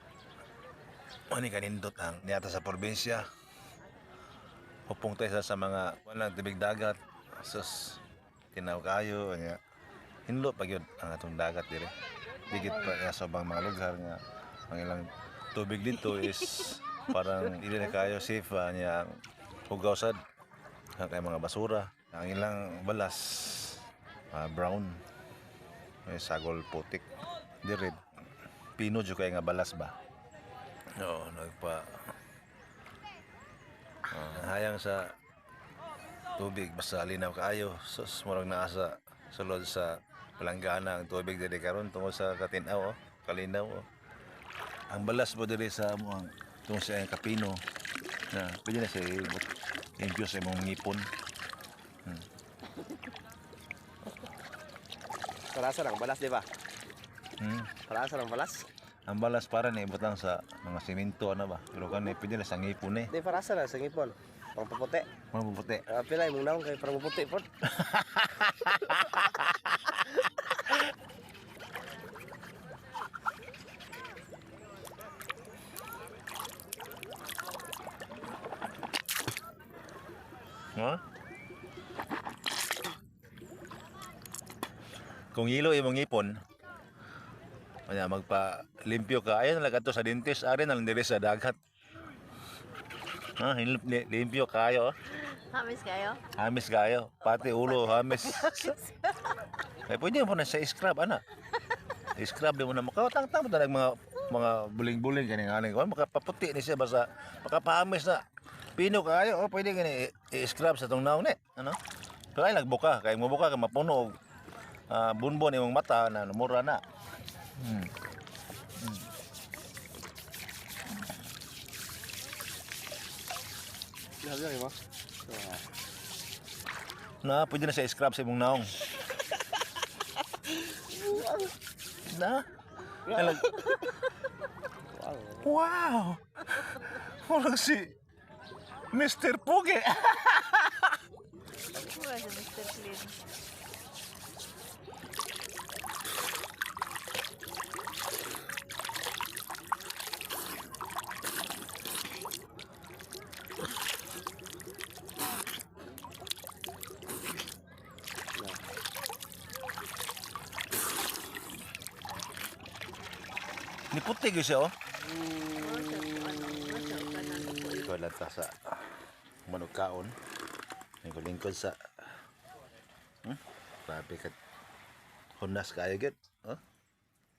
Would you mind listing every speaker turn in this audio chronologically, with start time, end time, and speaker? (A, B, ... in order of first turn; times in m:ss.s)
0:01.3-0:03.3 A
0:04.9-0:08.0 A
0:08.5-0:09.6 A
0:10.3-0:11.9 A
0:12.5-0:19.2 A
0:12.5-0:12.9 B
0:19.7-0:20.2 A
0:21.0-0:25.0 A
0:26.1-0:27.1 A
0:27.6-0:28.0 A
0:28.8-0:30.0 A
0:31.0-0:32.0 A
0:34.1-0:35.0 A
0:36.4-0:43.9 A
0:44.9-0:47.6 A
0:48.3-0:51.1 A
0:55.5-0:56.5 C
0:57.4-0:57.7 A
0:57.9-0:58.7 C
0:59.1-1:03.1 A
1:03.1-1:05.1 C
1:05.3-1:05.9 A
1:05.9-1:07.5 C
1:07.7-1:10.0 A
1:20.8-1:21.0 A
1:25.3-1:26.4 A
1:27.9-1:31.6 A
1:33.4-1:34.9 A
1:35.2-1:36.2 B
1:36.4-1:38.8 A
1:37.5-1:39.1 B
1:39.9-1:41.2 A
1:42.2-1:48.2 A
1:48.8-1:51.8 A
1:52.4-1:54.2 A
1:54.9-1:56.8 A
1:57.6-1:57.9 A
1:58.8-1:59.1 A
2:04.2-2:05.6 C
2:07.2-2:08.8 A
2:11.0-2:11.5 C
2:12.1-2:12.4 A
2:13.1-2:13.4 C
2:13.1-2:13.6 A
2:14.9-2:15.5 C
2:15.4-2:17.9 A
2:18.9-2:20.9 A
2:21.8-2:23.2 B
2:43.9-2:44.7 A
2:45.5-2:47.9 B
2:47.8-2:48.9 A
2:49.5-2:50.2 A
2:51.0-2:51.8 A
2:53.2-2:54.4 A
2:55.4-2:56.6 A